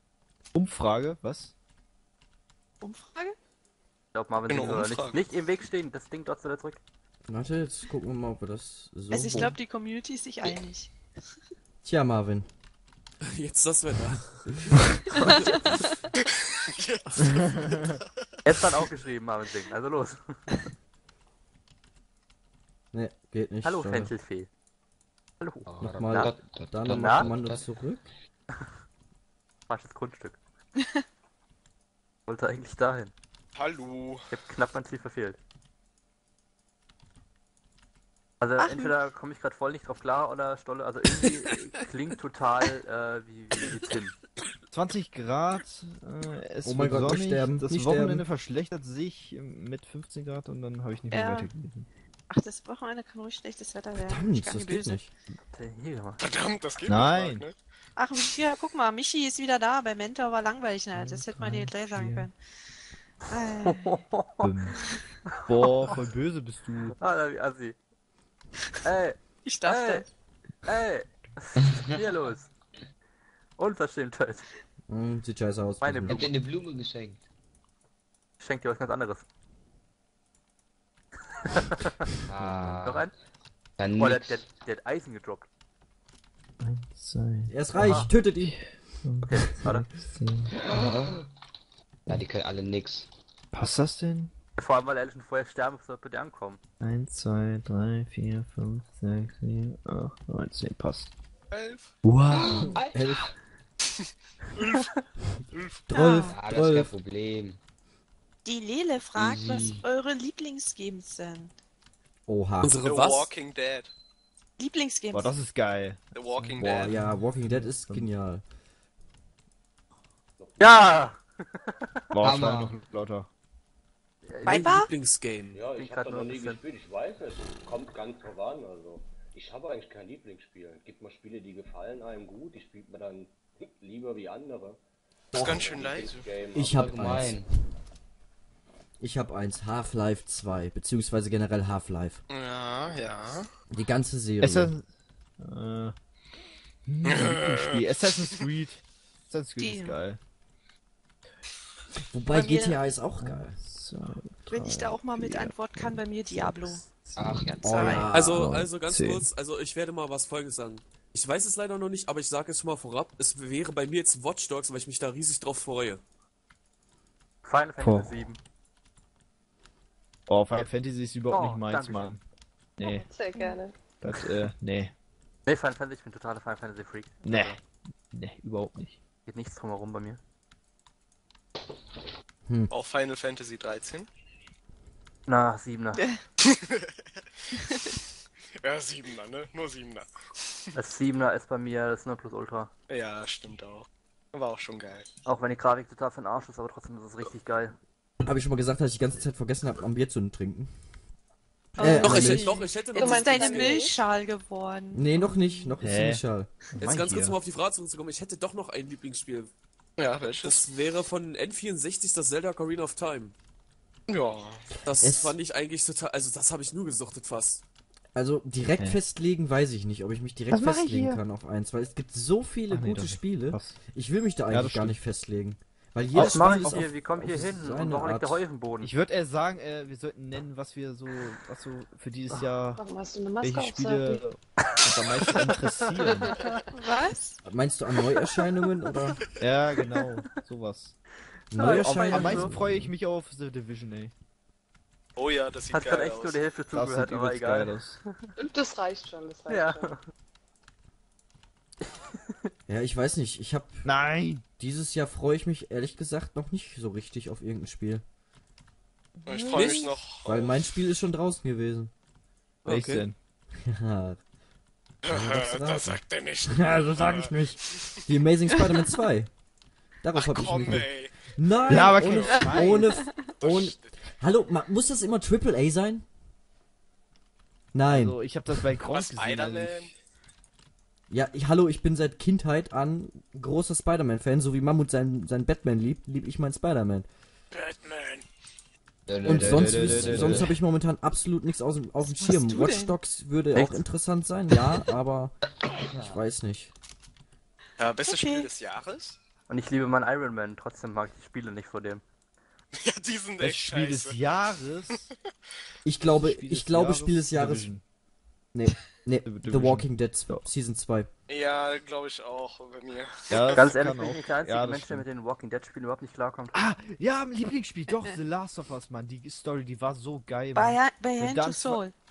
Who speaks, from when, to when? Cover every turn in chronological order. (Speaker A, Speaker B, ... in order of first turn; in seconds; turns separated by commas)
Speaker A: 0.5-1.5, Speaker B: 2.8-3.4, Speaker C: 4.1-6.8, Speaker D: 4.5-5.2, Speaker E: 7.3-9.6, Speaker B: 9.1-10.9, Speaker E: 11.8-12.5, Speaker F: 13.3-14.8, Speaker C: 15.1-15.8, Speaker D: 16.2-18.2, Speaker A: 17.4-17.9, Speaker C: 18.4-20.4, Speaker E: 22.9-24.1, Speaker C: 23.6-24.5, Speaker C: 25.4-26.3, Speaker G: 25.6-27.7, Speaker E: 25.8-28.1, Speaker C: 26.9-27.3, Speaker C: 29.7-30.4, Speaker C: 32.3-33.1, Speaker D: 33.5-34.2, Speaker C: 34.3-35.4, Speaker C: 38.4-44.1, Speaker B: 38.6-38.9, Speaker A: 44.7-51.9, Speaker E: 46.6-48.2, Speaker B: 51.1-51.5, Speaker B: 52.3-55.0, Speaker E: 54.0-55.1, Speaker C: 55.5-56.3, Speaker D: 56.2-57.6, Speaker A: 56.9-57.5, Speaker B: 58.0-62.4, Speaker A: 60.9-62.3, Speaker B: 63.3-63.9, Speaker C: 63.6-64.5, Speaker A: 64.4-64.8, Speaker A: 65.4-67.0, Speaker C: 67.0-67.8, Speaker C: 68.8-70.1, Speaker B: 69.4-70.1, Speaker C: 70.7-72.5, Speaker G: 71.6-72.0, Speaker C: 73.6-74.4, Speaker E: 74.9-76.3, Speaker C: 75.8-76.3, Speaker G: 76.1-77.2, Speaker C: 78.4-79.2, Speaker C: 81.5-82.0, Speaker G: 82.3-83.1, Speaker A: 82.4-82.7, Speaker C: 82.8-83.1, Speaker G: 83.8-84.4, Speaker C: 84.0-85.5, Speaker A: 86.6-90.6, Speaker E: 87.5-88.6, Speaker C: 87.8-88.1, Speaker C: 89.2-89.9, Speaker G: 90.6-91.2, Speaker G: 92.1-93.1, Speaker A: 93.5-94.3, Speaker C: 94.6-96.6, Speaker A: 96.8-101.1, Speaker D: 101.5-101.9, Speaker A: 102.0-102.8, Speaker G: 102.3-103.2, Speaker E: 102.7-103.3, Speaker D: 104.0-104.9, Speaker D: 105.5-105.9, Speaker B: 105.9-106.4, Speaker E: 105.9-106.9, Speaker G: 106.2-107.6, Speaker B: 108.4-111.5, Speaker G: 109.2-109.8, Speaker E: 112.3-112.8, Speaker F: 112.6-113.3, Speaker D: 112.8-113.9, Speaker B: 114.6-115.4, Speaker A: 115.1-118.1, Speaker D: 116.1-117.0, Speaker E: 116.6-118.4, Speaker H: 120.4-121.1, Speaker C: 120.6-121.7, Speaker A: 122.1-123.3, Speaker G: 122.2-122.8, Speaker C: 124.3-124.8, Speaker B: 124.5-124.9, Speaker F: 124.5-125.6, Speaker H: 125.5-134.8, Speaker C: 125.7-126.6, Speaker H: 135.3-136.9, Speaker G: 135.3-135.7, Speaker D: 135.3-136.3, Speaker E: 136.5-137.5, Speaker G: 136.6-137.5, Speaker E: 139.0-142.2, Speaker D: 142.3-143.5, Speaker E: 143.7-144.7, Speaker A: 144.4-144.9, Speaker A: 145.4-145.9, Speaker A: 146.9-150.2, Speaker D: 147.0-147.8, Speaker B: 149.6-150.0, Speaker E: 152.1-153.6, Speaker B: 152.3-152.8, Speaker A: 153.2-157.5, Speaker B: 154.5-158.1, Speaker G: 157.2-158.1, Speaker E: 157.6-158.7, Speaker F: 158.1-166.0, Speaker A: 158.3-159.2, Speaker C: 167.4-168.4, Speaker A: 167.8-168.2, Speaker A: 170.3-172.2, Speaker C: 171.3-172.1, Speaker I: 172.8-173.8, Speaker A: 172.8-173.1, Speaker B: 173.3-173.6, Speaker A: 174.0-174.9, Speaker C: 175.4-177.6, Speaker A: 177.2-179.0, Speaker C: 179.3-180.2, Speaker D: 182.7-184.1, Speaker C: 185.3-186.0, Speaker B: 185.9-186.2, Speaker D: 186.4-187.0, Speaker D: 188.6-190.6, Speaker C: 190.7-192.7, Speaker D: 192.9-195.1, Speaker C: 195.2-197.8, Speaker E: 198.2-200.7, Speaker B: 201.8-205.8, Speaker E: 201.8-202.5, Speaker F: 201.8-203.9, Speaker I: 202.9-204.0, Speaker E: 204.9-206.5, Speaker A: 205.8-207.4, Speaker F: 206.8-209.5, Speaker D: 210.0-210.7, Speaker F: 210.4-213.3, Speaker D: 214.1-214.7, Speaker F: 214.8-217.6, Speaker E: 215.0-215.4, Speaker E: 218.1-228.4, Speaker A: 220.5-221.2, Speaker A: 222.7-223.8, Speaker A: 224.5-225.0, Speaker A: 226.1-226.8, Speaker C: 226.1-228.9, Speaker A: 228.8-232.8, Speaker I: 232.8-234.2, Speaker A: 233.4-236.3, Speaker I: 236.0-236.6, Speaker B: 236.7-237.4, Speaker E: 237.4-239.2, Speaker A: 239.4-241.0, Speaker E: 241.5-242.9, Speaker C: 241.6-242.5, Speaker A: 241.6-244.1, Speaker D: 245.2-246.4, Speaker C: 245.7-247.7, Speaker A: 246.7-248.0, Speaker I: 248.4-249.9, Speaker C: 249.5-250.0, Speaker E: 252.7-253.9, Speaker A: 253.8-254.4, Speaker E: 254.6-258.0, Speaker D: 259.2-260.5, Speaker B: 259.3-259.9, Speaker F: 259.5-259.9, Speaker E: 260.2-261.9, Speaker F: 262.6-263.1, Speaker A: 262.7-263.1, Speaker E: 263.6-264.2, Speaker D: 265.0-268.0, Speaker E: 265.1-269.3, Speaker B: 268.5-268.9, Speaker E: 270.0-276.1, Speaker D: 270.1-272.7, Speaker A: 271.7-273.0, Speaker B: 272.3-273.3, Speaker D: 273.4-273.9, Speaker E: 277.7-278.2, Speaker A: 277.9-279.9, Speaker D: 278.8-279.9, Speaker E: 281.1-287.1, Speaker D: 287.5-288.2, Speaker G: 289.1-290.5, Speaker E: 289.2-295.4, Speaker A: 289.2-290.5, Speaker B: 292.0-293.0, Speaker C: 293.6-293.8, Speaker G: 295.7-296.2, Speaker E: 296.1-296.7, Speaker D: 297.8-299.1, Speaker B: 297.9-298.5, Speaker C: 299.5-302.0, Speaker D: 302.7-304.2, Speaker A: 303.4-305.1, Speaker E: 305.9-307.7, Speaker A: 306.1-307.8, Speaker E: 308.5-311.1, Speaker A: 309.2-310.5, Speaker D: 311.3-313.7, Speaker A: 313.3-315.1, Speaker C: 313.5-316.6, Speaker A: 316.5-321.8, Speaker B: 317.9-318.2, Speaker B: 320.6-321.9